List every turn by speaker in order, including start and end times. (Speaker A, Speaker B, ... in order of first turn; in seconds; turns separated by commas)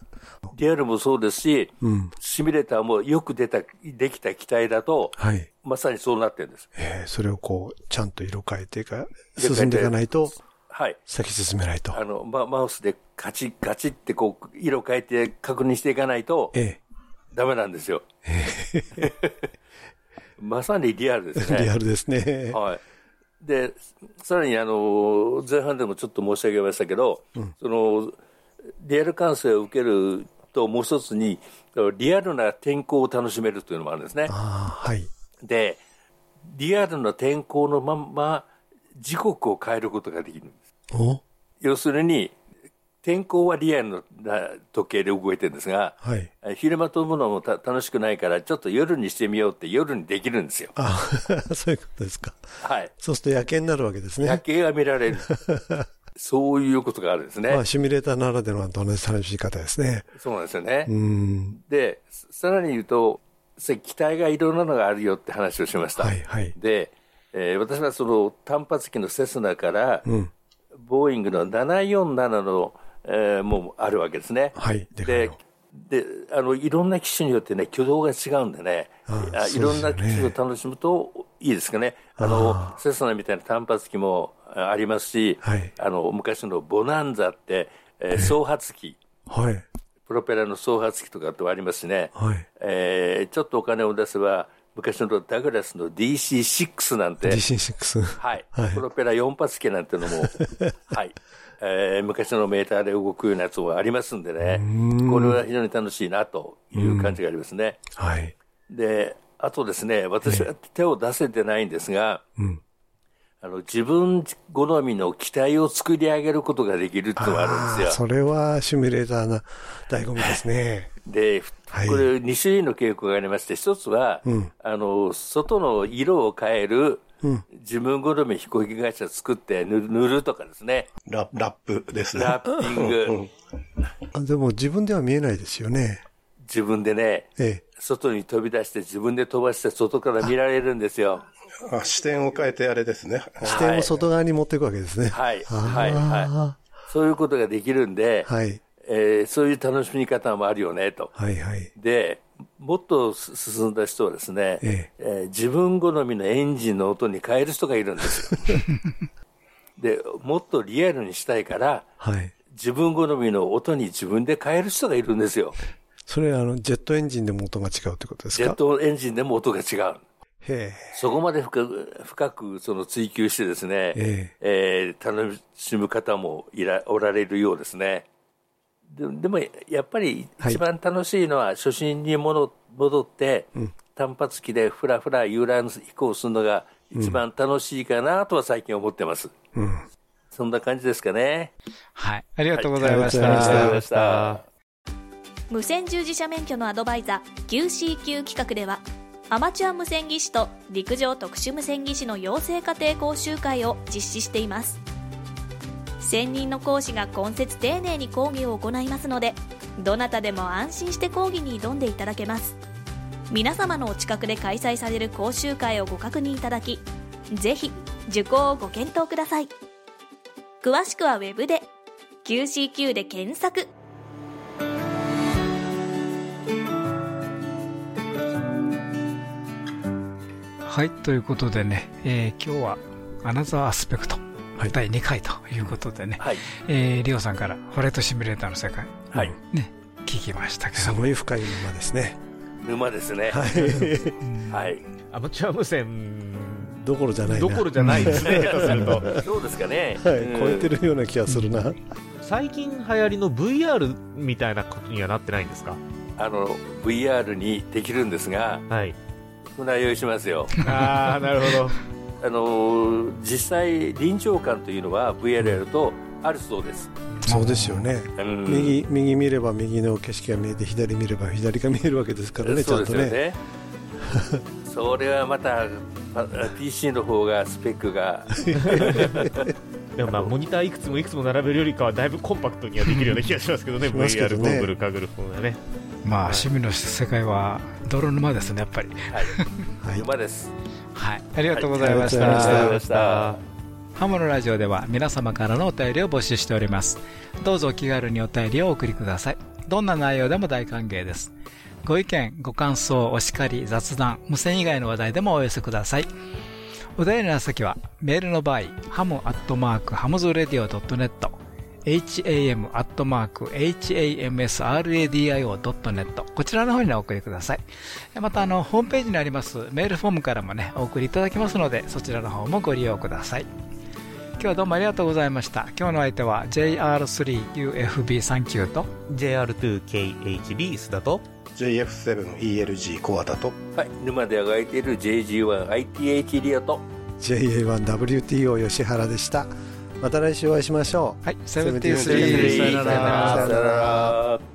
Speaker A: 0.5-6.7, Speaker B: 1.8-2.1, Speaker B: 5.2-5.5, Speaker B: 6.8-10.3, Speaker A: 9.4-10.1, Speaker A: 10.7-11.0, Speaker B: 11.1-12.0, Speaker A: 11.9-16.6, Speaker B: 16.5-16.8, Speaker A: 17.3-18.1, Speaker B: 18.2-19.1, Speaker A: 20.4-21.7, Speaker B: 21.4-22.6, Speaker A: 22.5-22.8, Speaker A: 23.4-28.2, Speaker A: 28.8-34.3, Speaker B: 34.3-35.1, Speaker A: 35.4-35.8, Speaker A: 36.5-40.6, Speaker B: 40.9-41.2, Speaker A: 41.6-42.3, Speaker A: 43.0-50.7, Speaker B: 46.0-46.3, Speaker B: 50.8-52.4, Speaker A: 52.6-52.9, Speaker B: 53.0-54.4, Speaker A: 54.2-55.3, Speaker B: 55.3-55.9, Speaker A: 56.2-57.6, Speaker B: 57.5-60.1, Speaker A: 60.2-60.9, Speaker B: 60.8-61.6, Speaker A: 61.6-70.0, Speaker B: 66.0-66.5, Speaker B: 70.0-70.3, Speaker A: 70.8-89.0, Speaker B: 74.5-75.4, Speaker B: 79.1-80.3, Speaker B: 82.2-82.8, Speaker B: 85.4-85.7, Speaker B: 89.3-89.7, Speaker A: 90.1-97.4, Speaker B: 92.2-92.4, Speaker B: 97.2-98.8, Speaker A: 98.2-107.8, Speaker B: 100.2-100.7, Speaker B: 104.4-105.4, Speaker B: 106.7-107.2, Speaker B: 107.9-108.3, Speaker A: 108.7-112.2, Speaker B: 112.4-112.6, Speaker A: 113.4-118.0, Speaker B: 117.2-120.9, Speaker A: 121.1-127.0, Speaker B: 121.7-122.1, Speaker A: 127.5-130.9, Speaker C: 131.1-133.3, Speaker A: 132.1-133.2, Speaker B: 134.1-136.0, Speaker A: 136.4-141.2, Speaker B: 137.4-137.6, Speaker C: 141.6-143.7, Speaker B: 143.4-146.6, Speaker A: 143.4-143.9, Speaker A: 145.1-146.3, Speaker A: 146.9-148.3, Speaker B: 148.2-148.6, Speaker A: 148.8-151.1, Speaker B: 151.2-151.7, Speaker A: 151.8-158.6, Speaker B: 154.6-154.9, Speaker A: 159.8-161.9, Speaker B: 162.0-162.3, Speaker A: 162.5-165.6, Speaker B: 166.1-168.6, Speaker A: 168.4-170.0, Speaker B: 170.4-171.0, Speaker A: 170.9-178.1, Speaker B: 173.9-174.3, Speaker A: 178.9-189.3, Speaker B: 189.6-189.9, Speaker A: 190.3-191.5, Speaker D: 191.9-193.7, Speaker A: 192.5-194.4, Speaker B: 192.8-193.8, Speaker E: 193.0-194.4, Speaker F: 195.5-204.8, Speaker F: 206.0-212.6, Speaker F: 213.3-219.5, Speaker F: 220.6-221.7, Speaker F: 222.2-223.7, Speaker D: 230.6-241.1, Speaker B: 240.8-242.2, Speaker A: 242.6-243.4, Speaker B: 243.3-244.2, Speaker D: 244.2-244.5, Speaker A: 244.5-244.8, Speaker E: 245.1-249.2, Speaker B: 246.8-249.1, Speaker A: 248.2-250.7, Speaker B: 250.0-251.8, Speaker E: 252.2-255.8, Speaker A: 256.2-258.6, Speaker E: 258.7-259.0, Speaker A: 259.5-260.6, Speaker E: 260.6-261.8, Speaker A: 262.2-266.9, Speaker D: 267.2-267.9, Speaker B: 267.2-273.2, Speaker A: 268.2-268.8, Speaker A: 272.4-273.4, Speaker B: 274.0-274.4, Speaker A: 274.6-279.5, Speaker B: 278.4-279.5, Speaker E: 278.6-279.0, Speaker E: 279.9-285.6, Speaker B: 283.9-284.7, Speaker D: 286.0-289.6, Speaker B: 289.8-290.1, Speaker A: 289.9-290.5, Speaker D: 290.9-292.8, Speaker A: 291.5-293.3, Speaker B: 291.7-292.8, Speaker E: 292.1-293.4, Speaker D: 294.0-301.3, Speaker D: 301.8-306.1, Speaker D: 307.0-317.6, Speaker D: 318.1-323.4, Speaker D: 324.4-328.9, Speaker E: 329.1-331.2, Speaker C: 331.6-333.6, Speaker A: 333.7-336.8, Speaker B: 337.2-344.1, Speaker D: 341.2-343.5, Speaker C: 341.9-343.1, Speaker A: 342.0-344.4, Speaker E: 343.1-343.6